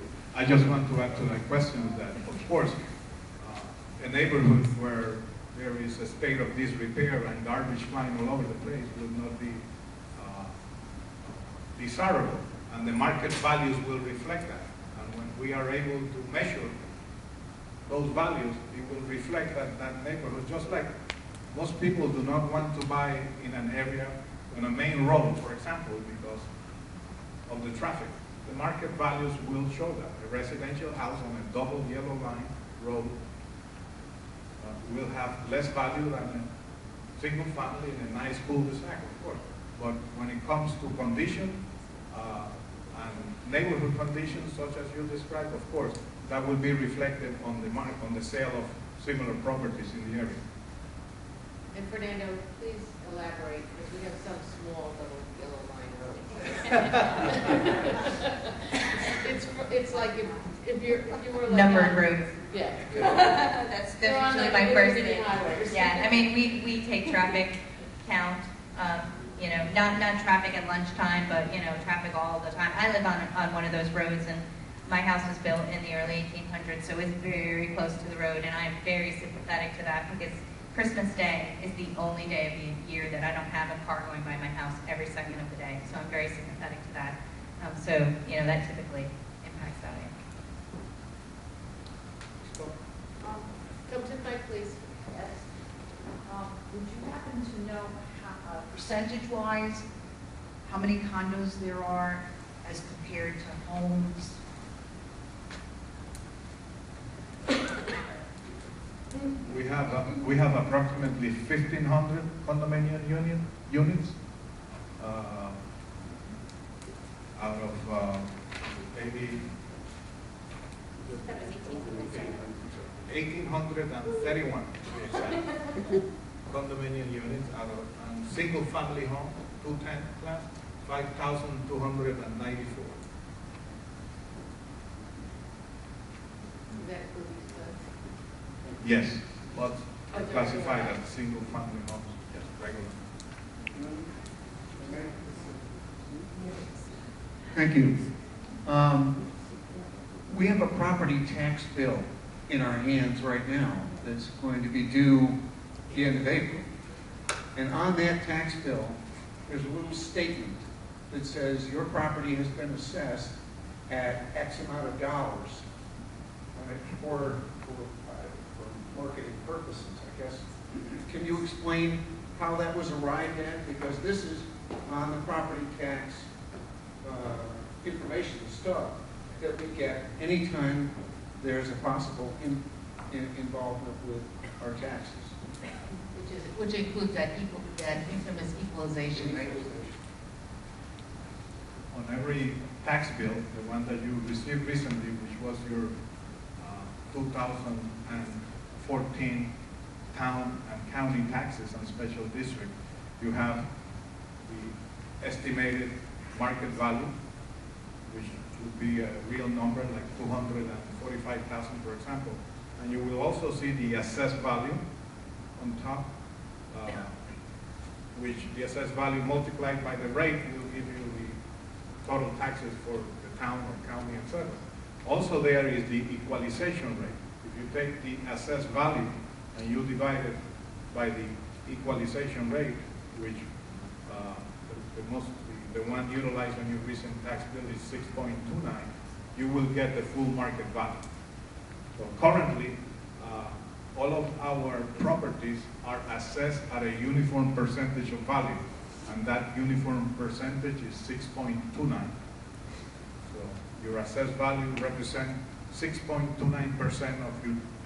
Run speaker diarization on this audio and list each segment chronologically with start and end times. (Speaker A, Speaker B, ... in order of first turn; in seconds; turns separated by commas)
Speaker A: 0.3-2.8, Speaker A: 3.4-10.5, Speaker A: 11.2-16.7, Speaker A: 17.9-20.9, Speaker A: 21.5-26.5, Speaker A: 27.5-33.2, Speaker A: 34.6-36.5, Speaker A: 37.2-41.6, Speaker A: 42.1-50.4, Speaker B: 51.7-66.2, Speaker C: 61.5-62.3, Speaker C: 64.0-90.1, Speaker B: 93.2-95.0, Speaker D: 95.1-95.4, Speaker D: 96.2-99.8, Speaker D: 100.6-104.4, Speaker A: 109.4-114.2, Speaker A: 115.0-115.6, Speaker A: 117.3-118.3, Speaker A: 118.9-119.5, Speaker A: 123.0-125.5, Speaker A: 126.5-133.0, Speaker B: 136.7-137.9, Speaker A: 138.8-143.0, Speaker B: 140.1-140.9, Speaker E: 147.5-148.1, Speaker E: 148.6-149.2, Speaker E: 150.2-155.4, Speaker E: 155.9-156.7, Speaker E: 157.5-163.3, Speaker E: 163.9-165.6, Speaker E: 166.6-170.5, Speaker E: 171.0-176.3, Speaker E: 177.0-185.4, Speaker B: 186.1-189.7, Speaker A: 191.9-195.9, Speaker A: 196.6-199.5, Speaker A: 200.1-203.7, Speaker A: 204.4-207.1, Speaker A: 208.1-214.8, Speaker A: 215.6-216.1, Speaker A: 216.7-217.2, Speaker A: 218.1-221.4, Speaker A: 222.0-230.4, Speaker A: 230.9-233.5, Speaker A: 234.1-241.0, Speaker A: 241.9-252.1, Speaker A: 253.2-257.6